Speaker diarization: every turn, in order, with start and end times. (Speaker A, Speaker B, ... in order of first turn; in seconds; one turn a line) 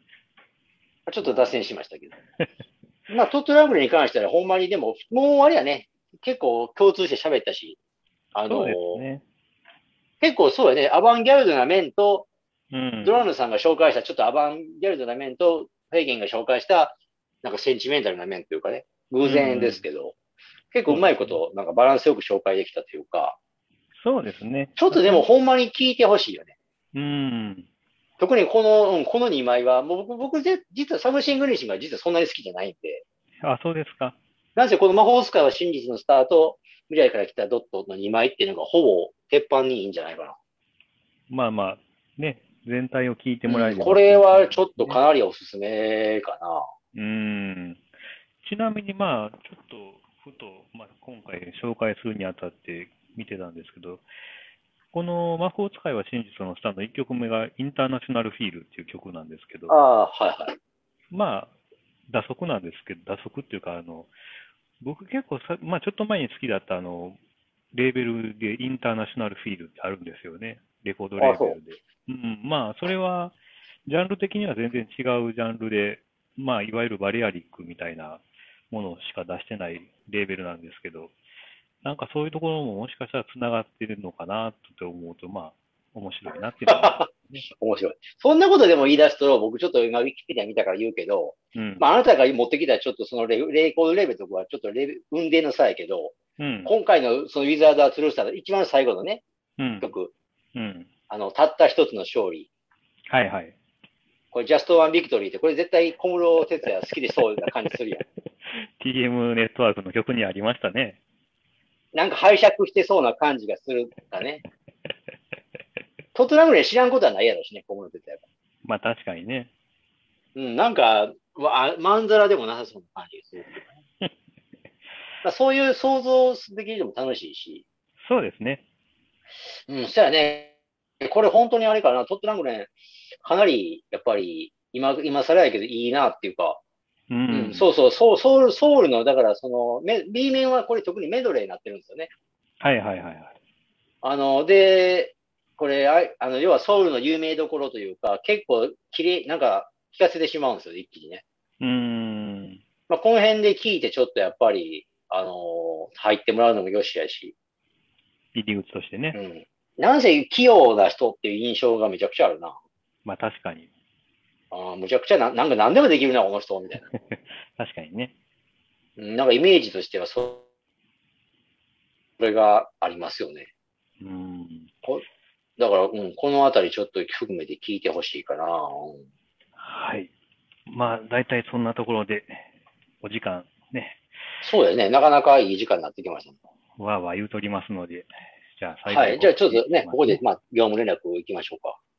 Speaker A: 1.1-2.1
Speaker B: 1.2-1.6
Speaker A: 3.1-7.8
Speaker A: 8.3-9.0
Speaker B: 8.5-9.2
Speaker A: 10.2-12.3
Speaker B: 12.7-13.3
Speaker A: 13.0-20.1
Speaker B: 19.2-19.8
Speaker A: 20.7-23.4
Speaker B: 20.9-21.4
Speaker B: 23.9-25.2
Speaker A: 24.8-26.5
Speaker B: 26.9-27.7
Speaker A: 28.2-33.0
Speaker B: 33.4-34.2
Speaker A: 34.5-40.4
Speaker B: 41.3-45.0
Speaker A: 43.5-46.6
Speaker B: 46.9-47.9
Speaker B: 48.4-54.0
Speaker B: 54.9-59.8
Speaker A: 59.7-60.5
Speaker B: 61.1-61.5
Speaker B: 62.1-64.1
Speaker B: 64.8-67.2
Speaker B: 67.7-81.1
Speaker A: 71.2-71.6
Speaker B: 81.8-87.4
Speaker A: 86.7-99.2
Speaker B: 91.5-91.9
Speaker B: 96.4-96.7
Speaker B: 99.6-99.9
Speaker A: 99.8-100.1
Speaker B: 100.5-100.9
Speaker A: 101.1-102.5
Speaker B: 103.1-103.5
Speaker A: 104.3-108.0
Speaker B: 107.7-111.0
Speaker A: 111.9-114.4
Speaker A: 116.1-118.2
Speaker B: 118.6-119.5
Speaker A: 120.3-123.8
Speaker A: 125.2-127.6
Speaker B: 128.0-128.6
Speaker A: 129.7-136.6
Speaker B: 137.1-137.7
Speaker A: 137.3-142.1
Speaker B: 142.6-143.3
Speaker A: 144.0-151.2
Speaker B: 151.6-152.6
Speaker A: 152.9-157.3
Speaker B: 158.3-159.2
Speaker A: 159.1-162.6
Speaker B: 163.0-163.7
Speaker A: 164.5-166.9
Speaker B: 166.8-168.1
Speaker A: 169.0-170.4
Speaker A: 172.2-173.5
Speaker B: 174.0-174.7
Speaker A: 175.6-179.0
Speaker B: 179.6-180.1
Speaker B: 180.7-182.5
Speaker B: 183.0-184.4
Speaker A: 184.4-186.3
Speaker B: 186.8-190.2
Speaker A: 188.9-191.8